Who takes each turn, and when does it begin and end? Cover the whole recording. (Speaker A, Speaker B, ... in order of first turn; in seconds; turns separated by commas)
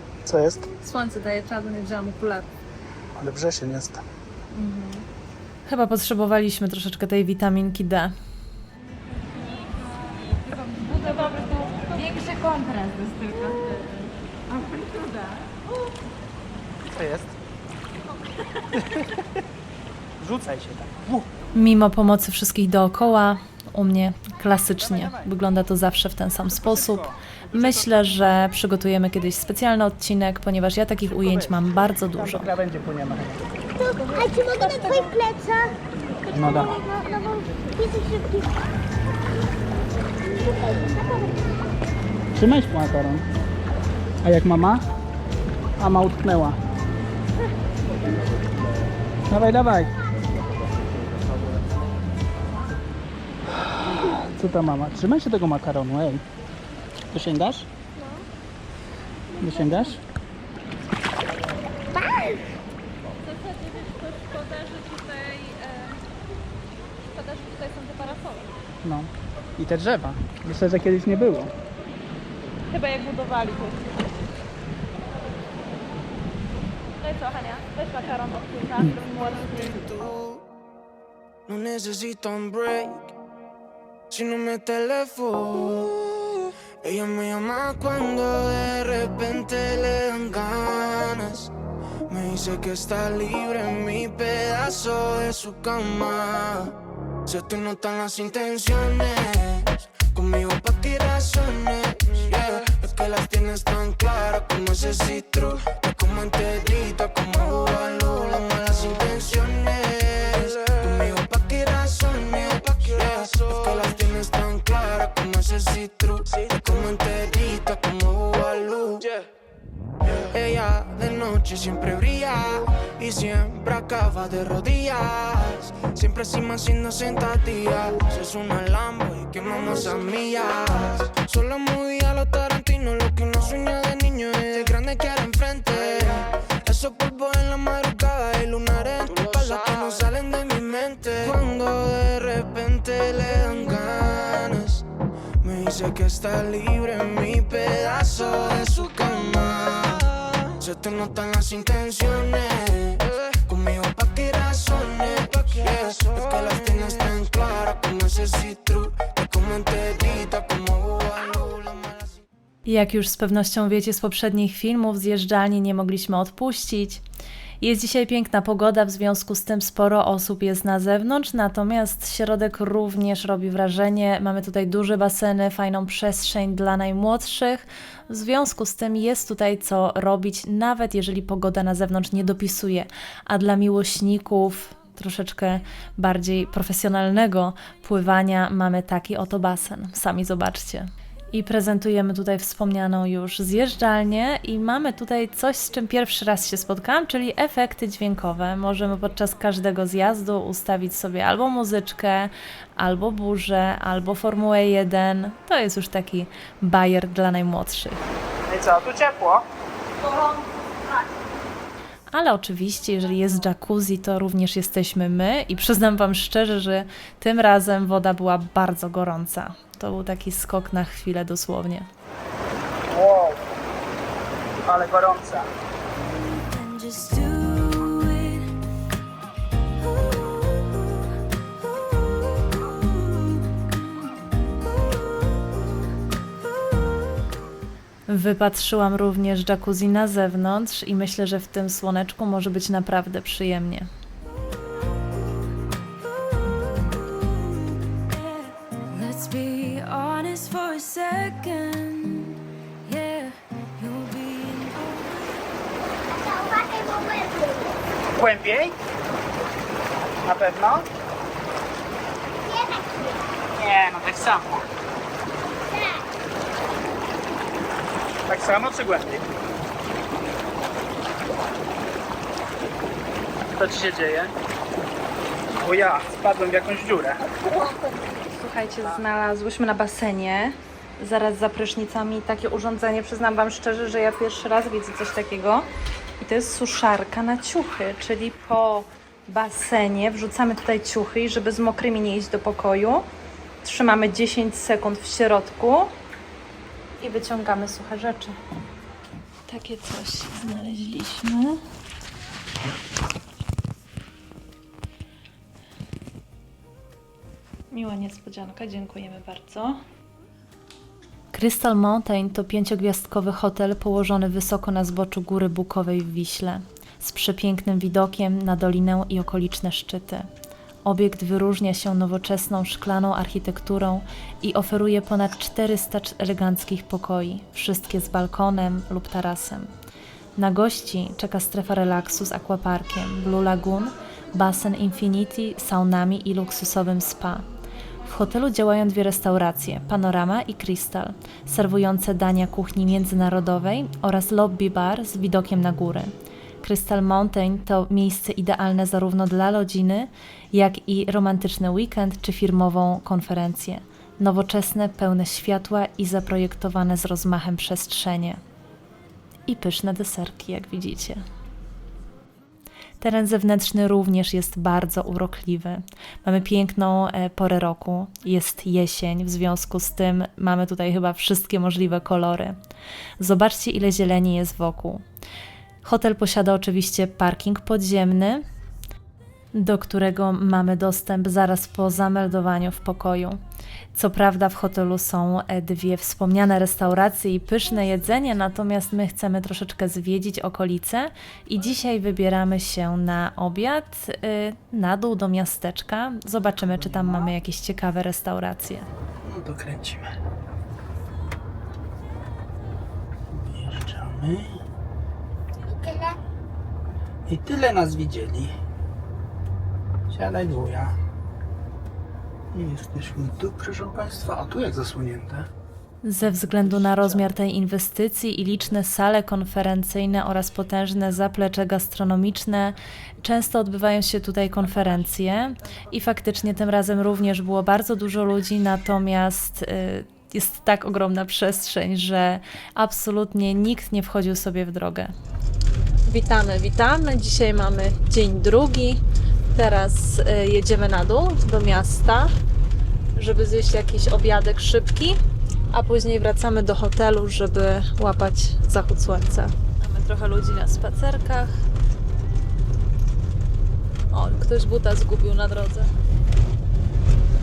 Speaker A: 0.2-0.7, Speaker B: 0.8-2.5, Speaker A: 3.1-4.0, Speaker B: 4.5-5.1, Speaker C: 5.7-8.1, Speaker B: 10.8-13.8, Speaker A: 14.6-14.9, Speaker A: 16.9-17.4, Speaker A: 18.7-19.2, Speaker A: 20.2-21.3, Speaker C: 21.5-32.5, Speaker A: 24.9-25.3, Speaker A: 26.5-27.7, Speaker A: 32.2-33.5, Speaker D: 33.8-35.8, Speaker A: 36.3-36.9, Speaker D: 36.9-38.5, Speaker D: 40.3-41.5, Speaker A: 42.3-43.2, Speaker A: 44.2-44.8, Speaker A: 45.8-46.6, Speaker A: 49.3-49.9, Speaker A: 53.8-56.2, Speaker A: 57.1-57.7, Speaker A: 59.4-60.0, Speaker D: 62.0-62.4, Speaker B: 63.2-66.0, Speaker B: 67.1-68.5, Speaker A: 68.8-71.5, Speaker B: 72.7-73.9, Speaker B: 77.0-79.8, Speaker E: 79.5-80.4, Speaker E: 81.5-83.1, Speaker E: 84.1-91.5, Speaker E: 92.1-119.2, Speaker E: 120.0-144.8, Speaker E: 145.4-162.2, Speaker C: 162.7-167.0, Speaker C: 167.6-208.0, Speaker A: 208.5-209.4, Speaker C: 212.1-221.9, Speaker A: 222.9-223.4, Speaker A: 224.7-225.5, Speaker F: 226.0-228.6, Speaker F: 229.8-231.0, Speaker F: 232.4-234.1, Speaker C: 238.1-243.9, Speaker F: 246.7-255.4, Speaker D: 256.1-257.7, Speaker A: 258.2-258.8, Speaker A: 260.2-260.9, Speaker D: 262.4-263.2, Speaker A: 263.5-264.6, Speaker D: 265.7-266.0, Speaker A: 268.3-269.2, Speaker A: 273.5-274.3, Speaker A: 275.6-277.3, Speaker B: 277.5-285.7, Speaker B: 286.2-293.1, Speaker B: 293.6-295.9, Speaker B: 297.0-298.4, Speaker B: 299.5-301.6, Speaker B: 307.7-309.8, Speaker C: 311.3-320.3, Speaker C: 320.9-329.7, Speaker C: 330.4-337.4, Speaker C: 338.1-358.4, Speaker C: 359.5-361.2, Speaker C: 363.0-372.6, Speaker C: 373.2-375.0, Speaker C: 375.8-378.4, Speaker C: 379.5-383.4, Speaker C: 383.9-398.9, Speaker A: 396.9-397.2, Speaker A: 399.2-400.1, Speaker A: 403.3-404.6, Speaker D: 405.7-406.1, Speaker A: 407.3-408.5, Speaker A: 410.1-410.9, Speaker A: 412.5-415.5, Speaker C: 416.0-435.1, Speaker B: 436.1-439.0, Speaker B: 439.5-442.3, Speaker B: 443.2-445.2, Speaker B: 445.7-451.6, Speaker B: 454.1-455.9